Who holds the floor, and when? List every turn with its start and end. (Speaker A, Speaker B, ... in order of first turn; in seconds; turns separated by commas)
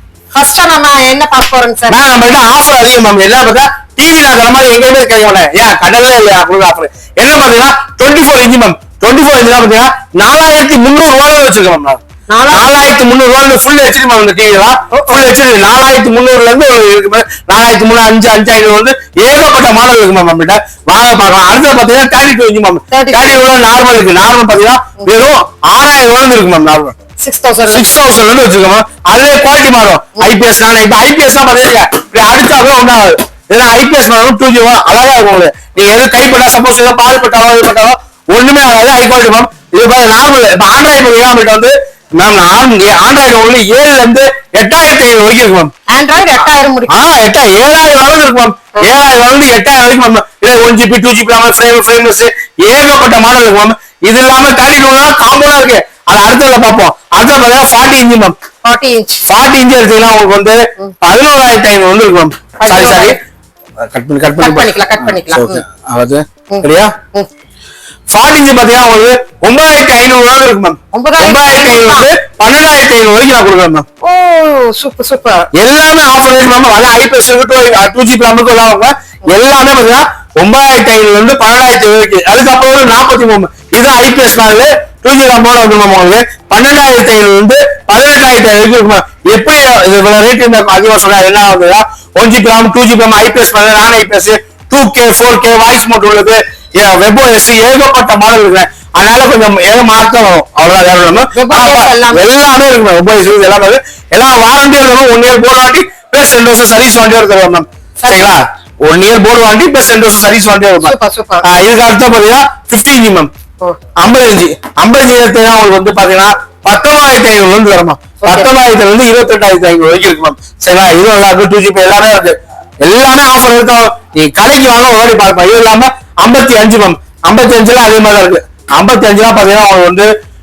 Speaker A: 0.3-2.0, Speaker B: 1.9-26.9, Speaker A: 12.3-12.9, Speaker A: 14.9-15.2, Speaker A: 22.9-23.4, Speaker A: 27.2-28.0, Speaker B: 27.7-45.7, Speaker A: 45.9-46.9, Speaker B: 46.9-58.4, Speaker A: 58.6-59.2, Speaker B: 59.3-63.2, Speaker A: 62.6-63.2, Speaker B: 63.8-67.0, Speaker A: 64.4-65.6, Speaker A: 66.5-67.3, Speaker B: 68.1-73.8, Speaker A: 70.9-72.1, Speaker A: 74.0-75.5, Speaker B: 75.6-110.9, Speaker A: 101.3-102.2, Speaker A: 108.0-108.4, Speaker A: 110.8-111.5, Speaker B: 111.4-113.3, Speaker B: 114.0-130.1, Speaker A: 118.2-118.5